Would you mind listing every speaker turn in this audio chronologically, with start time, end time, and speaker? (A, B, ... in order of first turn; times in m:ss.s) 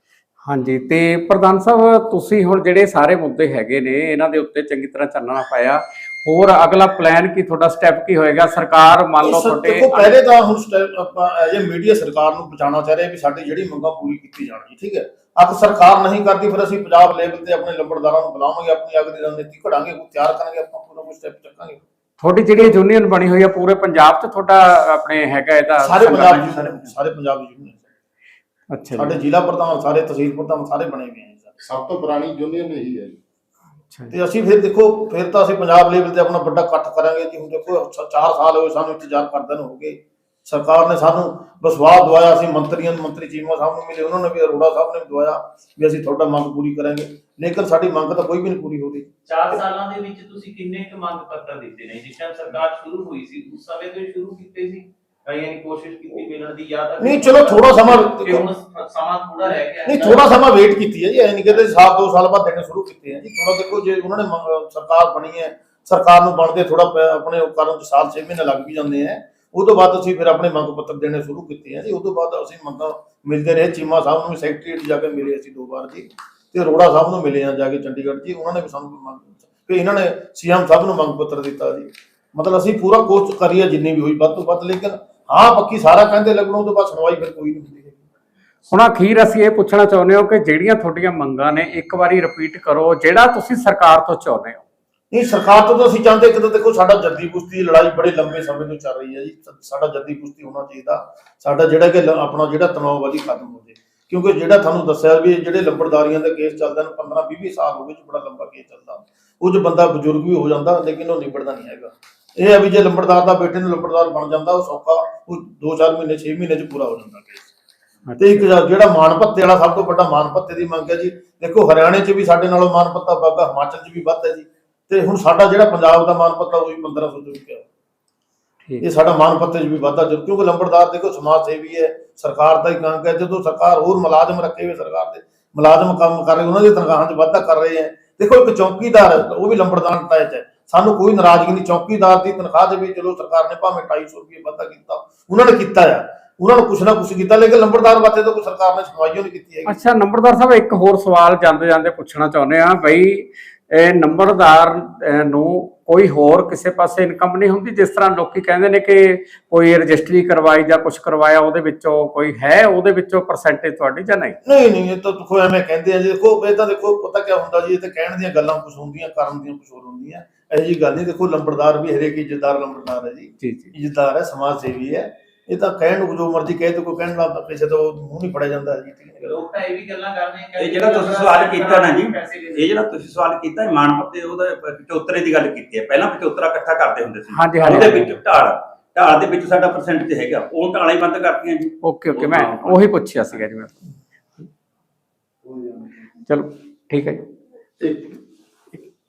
0:00.4-0:10.2 A
0:08.8-0:21.8 B
0:22.2-0:26.6 A
0:25.8-0:27.8 B
0:28.7-0:29.1 A
0:29.0-0:31.5 B
0:31.6-0:33.2 C
0:34.1-0:49.1 B
0:49.3-1:00.4 D
0:57.0-0:58.5 B
0:59.9-1:28.0 B
1:28.7-1:34.6 A
1:35.1-1:57.5 B
1:58.1-1:58.4 A
1:58.2-2:07.6 B
2:08.8-2:29.8 B
2:29.7-2:44.4 A
2:44.4-2:59.3 B
2:53.4-2:53.7 A
2:59.2-3:02.7 D
3:00.6-3:12.9 E
3:07.3-3:08.1 A
3:11.8-3:14.5 A
3:16.3-3:17.2 A
3:17.8-3:18.2 C